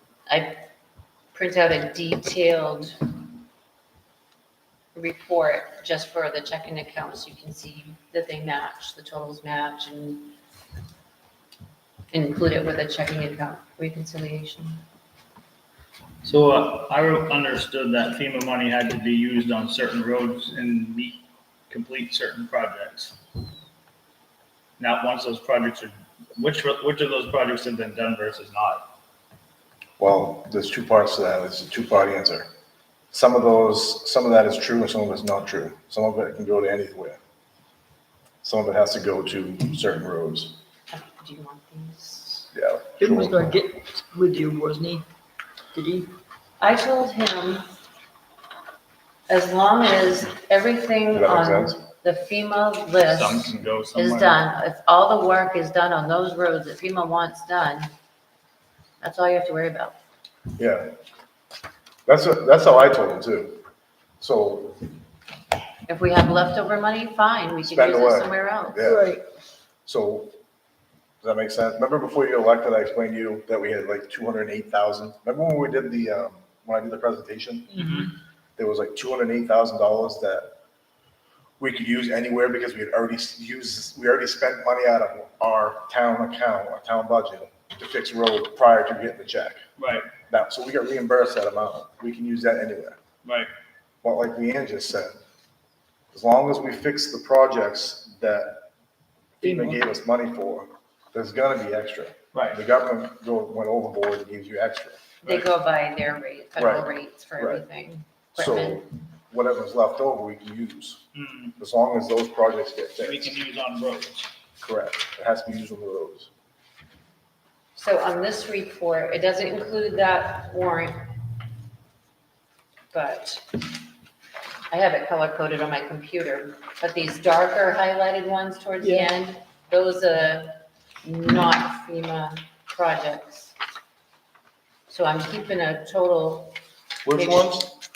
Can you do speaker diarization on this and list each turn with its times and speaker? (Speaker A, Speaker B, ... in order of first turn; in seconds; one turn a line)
Speaker A: 0.3-0.6
Speaker A: 1.3-3.1
Speaker A: 4.9-10.4
Speaker A: 12.1-14.8
Speaker B: 16.2-23.2
Speaker B: 24.8-28.9
Speaker C: 30.0-32.5
Speaker C: 33.1-37.2
Speaker C: 38.4-40.5
Speaker A: 40.9-42.5
Speaker C: 42.5-43.5
Speaker D: 43.0-45.0
Speaker D: 45.7-46.1
Speaker A: 46.6-47.7
Speaker A: 49.3-57.9
Speaker C: 51.1-51.8
Speaker B: 53.1-54.4
Speaker A: 59.0-60.0
Speaker C: 60.6-60.9
Speaker C: 62.1-63.6
Speaker C: 64.2-64.8
Speaker A: 65.9-68.8
Speaker C: 67.6-69.0
Speaker D: 68.8-69.2
Speaker C: 69.8-70.3
Speaker C: 71.2-77.9
Speaker D: 77.7-78.0
Speaker B: 77.8-78.1
Speaker C: 78.6-80.5
Speaker C: 81.6-89.6
Speaker B: 89.8-90.0
Speaker C: 90.3-93.0
Speaker B: 93.2-93.5
Speaker C: 94.0-95.2
Speaker C: 96.1-98.6
Speaker C: 99.4-105.0
Speaker D: 99.4-99.8
Speaker B: 102.3-102.6
Speaker A: 105.2-108.8
Speaker C: 106.6-107.6
Speaker C: 108.3-111.0
Speaker B: 111.1-111.6
Speaker C: 111.6-113.3
Speaker B: 113.0-114.3
Speaker C: 114.6-116.3
Speaker A: 117.8-121.1
Speaker A: 122.9-123.6
Speaker A: 124.7-133.5
Speaker A: 134.9-136.6
Speaker C: 137.0-137.7
Speaker A: 137.2-137.6